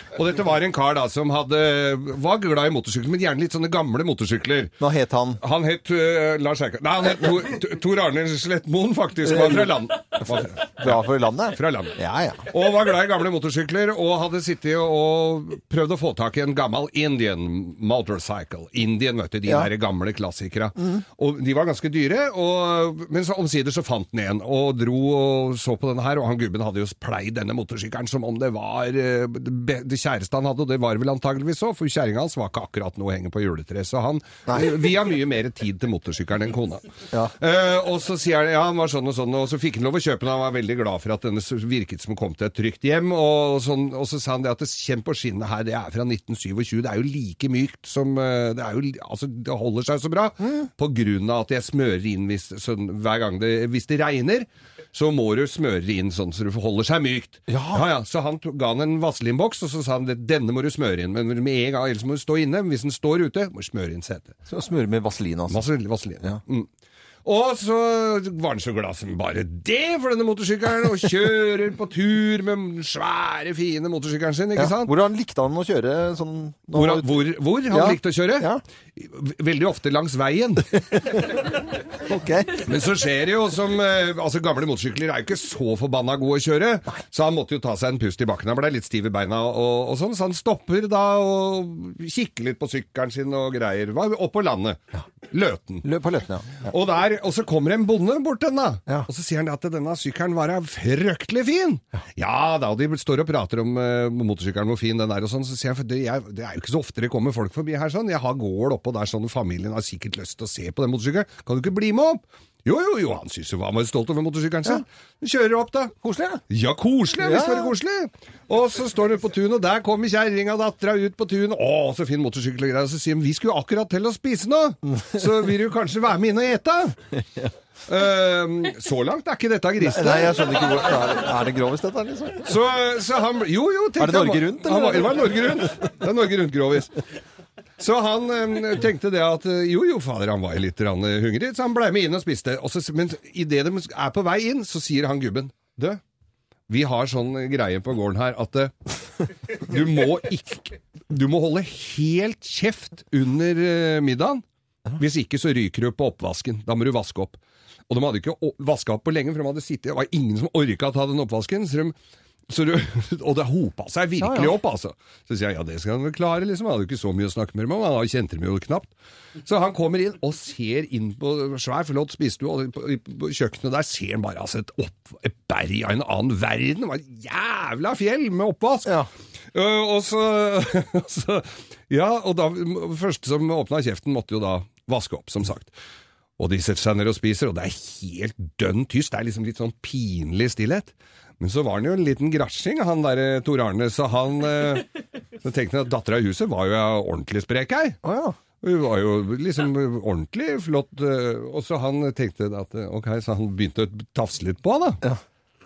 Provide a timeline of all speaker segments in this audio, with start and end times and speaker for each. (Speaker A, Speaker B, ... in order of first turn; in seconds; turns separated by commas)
Speaker A: 0.1-4.7, Speaker B: 4.8-5.4, Speaker A: 5.4-36.8, Speaker B: 9.3-12.5, Speaker A: 37.4-64.3, Speaker B: 57.5-57.9, Speaker B: 64.5-65.6, Speaker A: 65.5-66.7, Speaker A: 67.2-74.9, Speaker B: 74.5-78.6, Speaker A: 76.7-80.7, Speaker B: 82.1-82.6, Speaker A: 82.6-95.8, Speaker B: 95.8-96.7, Speaker A: 96.6-115.9, Speaker B: 116.0-116.4, Speaker A: 116.5-126.9, Speaker B: 117.2-117.7, Speaker A: 127.9-130.5, Speaker B: 129.8-132.5, Speaker A: 132.4-136.9, Speaker B: 134.0-135.3, Speaker A: 137.8-146.0, Speaker A: 146.7-148.7, Speaker A: 149.7-154.4, Speaker A: 155.0-161.9, Speaker A: 162.5-168.9, Speaker B: 164.2-164.6, Speaker A: 169.4-179.0, Speaker A: 179.5-185.7, Speaker A: 186.4-194.9, Speaker A: 195.4-198.0, Speaker B: 198.0-198.4, Speaker A: 198.6-205.0